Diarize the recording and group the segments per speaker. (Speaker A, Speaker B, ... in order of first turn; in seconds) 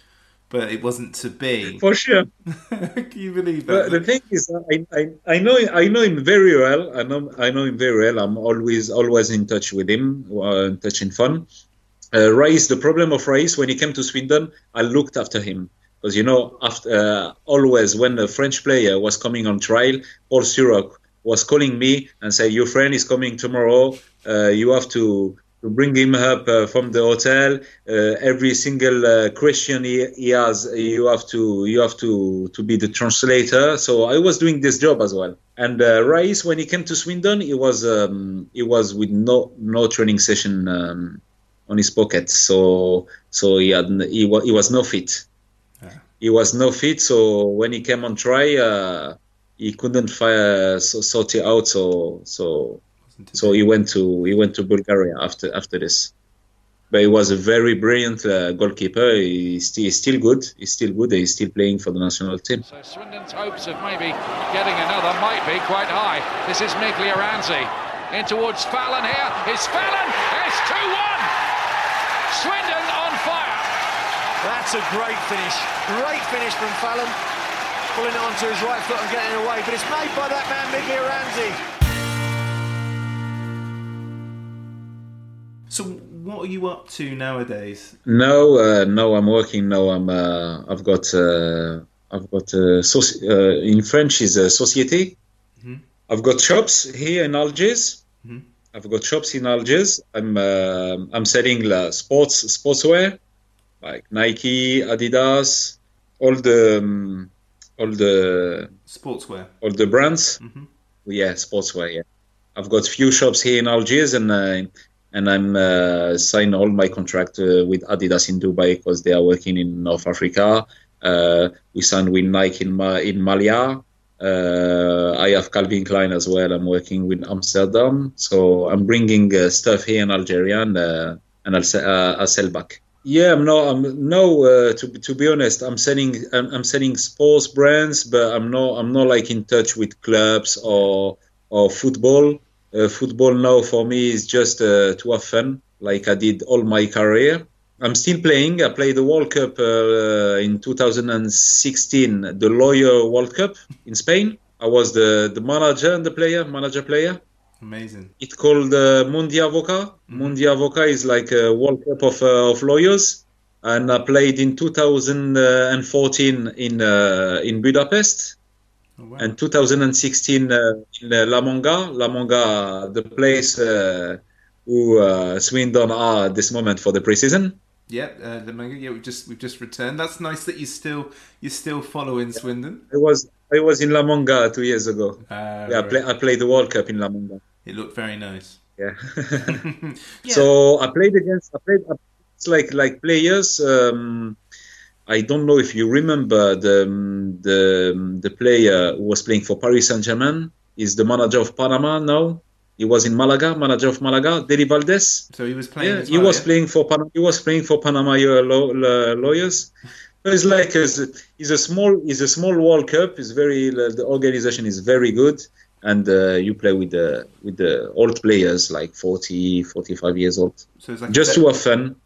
Speaker A: 0.5-1.8, 2.5-4.0, 53.1-53.6, 85.7-88.0, 108.9-109.5, 110.4-110.7, 157.6-158.1, 160.1-160.3, 169.0-169.3, 177.9-182.8, 185.3-186.0, 187.6-188.6, 189.5-190.5, 205.3-206.5, 220.8-221.4
Speaker B: 1.6-2.3, 3.7-11.5, 12.1-45.2, 46.2-52.8, 53.3-56.1, 56.9-62.6, 88.0-95.2, 96.1-98.0, 98.7-103.2, 103.8-108.7, 109.6-110.4, 111.0-112.0, 112.5-157.2, 158.2-168.4, 169.2-177.6, 182.9-187.4, 188.8-189.6, 190.3-194.4, 195.1-205.3, 205.8-209.7, 210.2-222.0
Speaker C: 62.6-71.3, 72.3-73.7
Speaker D: 74.4-77.2, 77.9-81.6